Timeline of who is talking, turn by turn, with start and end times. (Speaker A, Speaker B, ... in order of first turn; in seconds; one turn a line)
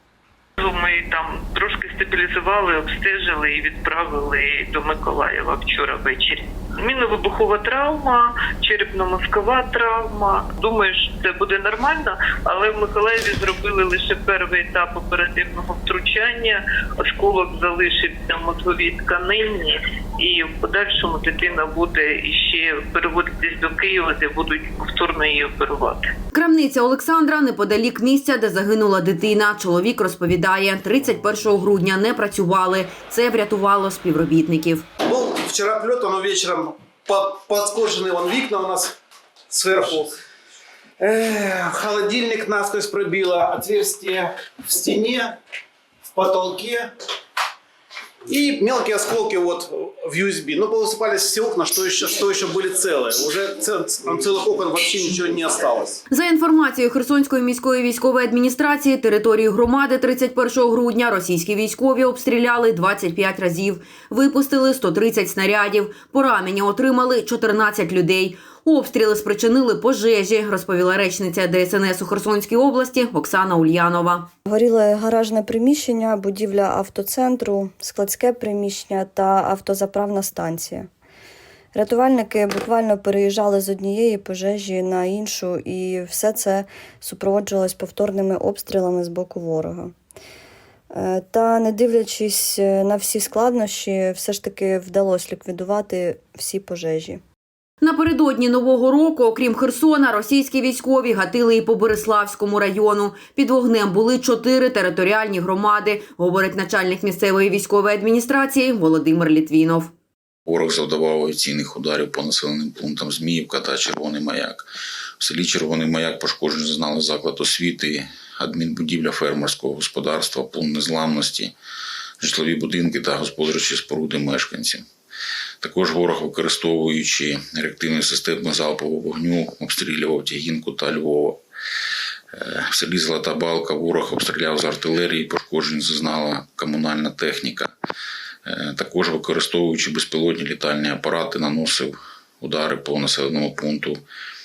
Speaker A: 0.6-26.1
Speaker B: 26.3-34.9
Speaker C: 35.0-39.0
Speaker C: 39.5-40.1
Speaker C: 41.0-45.4
Speaker C: 46.1-46.9
Speaker C: 48.3-56.0
Speaker B: 56.1-74.3
Speaker D: 74.5-80.9
Speaker D: 81.7-89.9
Speaker D: 90.9-97.2
Speaker B: 97.8-109.9
Speaker E: 110.5-114.7
Speaker E: 115.2-121.5
Speaker E: 122.2-124.8
Speaker E: 125.6-131.4
Speaker E: 132.3-137.7
Speaker E: 138.4-144.0